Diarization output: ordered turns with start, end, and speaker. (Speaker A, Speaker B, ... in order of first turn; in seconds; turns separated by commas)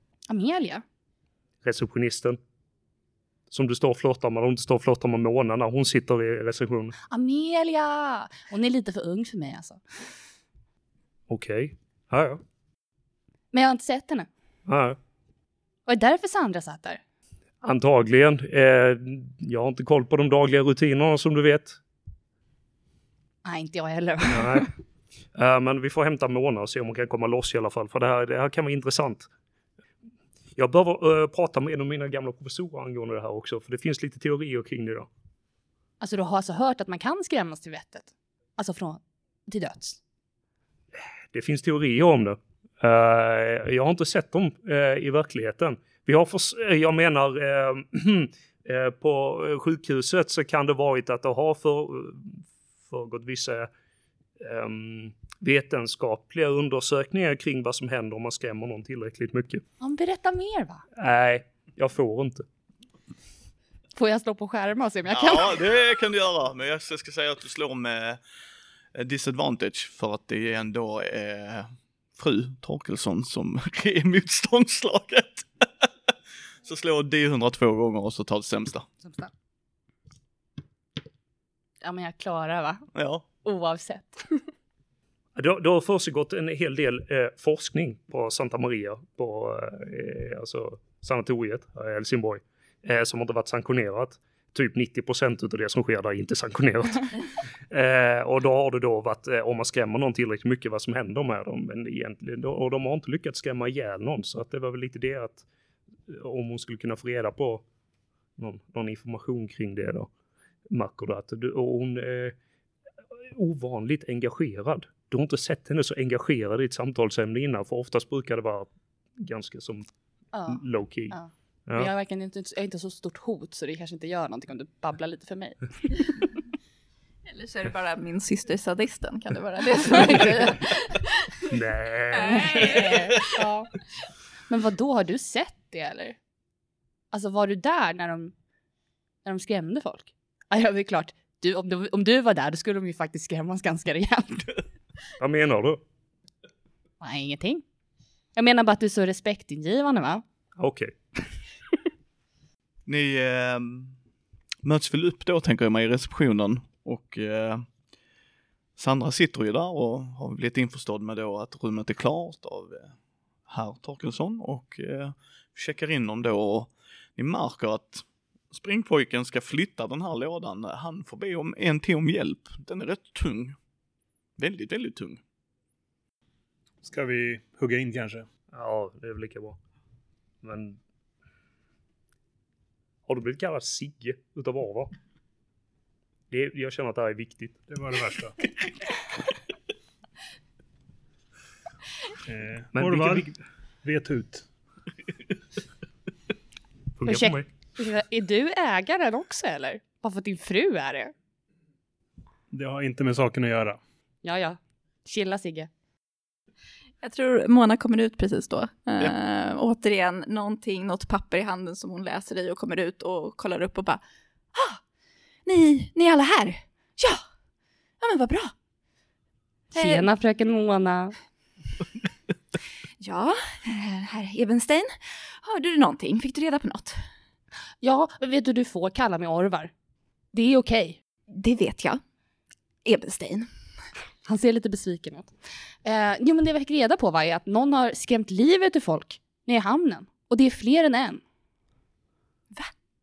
Speaker A: 0.3-0.8, Speaker B: 1.6-2.4, Speaker B: 3.5-7.0, Speaker A: 7.1-9.8, Speaker B: 11.3-12.4, Speaker A: 13.5-14.3, Speaker B: 14.7-15.0, Speaker A: 15.9-17.0, Speaker B: 17.6-21.8, Speaker A: 23.4-24.7, Speaker B: 24.3-24.7, Speaker B: 25.4-29.3, Speaker B: 30.6-35.1, Speaker A: 36.0-40.0, Speaker B: 41.3-53.7, Speaker B: 54.4-59.6, Speaker A: 59.8-60.9, Speaker B: 61.0-62.5, Speaker A: 64.0-65.5, Speaker C: 65.1-68.2, Speaker C: 68.9-75.9, Speaker C: 76.6-78.9, Speaker A: 79.0-79.3, Speaker A: 81.8-82.9, Speaker C: 83.0-83.2, Speaker A: 83.4-84.4, Speaker B: 85.3-97.1, Speaker B: 97.7-105.5, Speaker B: 106.1-107.6, Speaker B: 108.4-110.1, Speaker B: 110.7-112.3, Speaker B: 113.3-119.9, Speaker A: 120.3-126.3, Speaker B: 120.5-121.9, Speaker D: 127.3-131.4, Speaker B: 131.5-133.1, Speaker D: 132.1-133.4, Speaker A: 132.3-133.7, Speaker A: 134.5-136.2, Speaker A: 137.1-138.3, Speaker A: 139.2-144.5, Speaker B: 145.2-145.8, Speaker A: 147.0-147.6, Speaker A: 148.3-150.2, Speaker B: 150.6-150.9, Speaker C: 152.9-154.0, Speaker C: 154.6-157.7, Speaker C: 158.8-162.9, Speaker C: 163.5-173.6, Speaker C: 174.4-175.2, Speaker E: 176.8-178.3, Speaker B: 178.5-179.6, Speaker B: 180.4-180.8, Speaker B: 183.1-184.9, Speaker B: 186.3-187.6, Speaker E: 187.7-188.4, Speaker E: 192.3-193.3, Speaker B: 192.8-193.3, Speaker E: 193.8-194.5, Speaker B: 197.0-197.5, Speaker A: 197.1-201.1, Speaker E: 202.5-203.8, Speaker A: 204.2-205.7, Speaker D: 207.0-214.0, Speaker D: 214.5-214.8, Speaker D: 215.4-217.2, Speaker D: 218.0-218.5, Speaker A: 219.7-221.2, Speaker D: 219.8-220.1, Speaker D: 223.0-227.0, Speaker A: 227.8-229.7, Speaker A: 230.3-231.0, Speaker D: 231.3-232.0, Speaker D: 232.8-233.5, Speaker A: 234.3-235.3, Speaker A: 235.8-241.2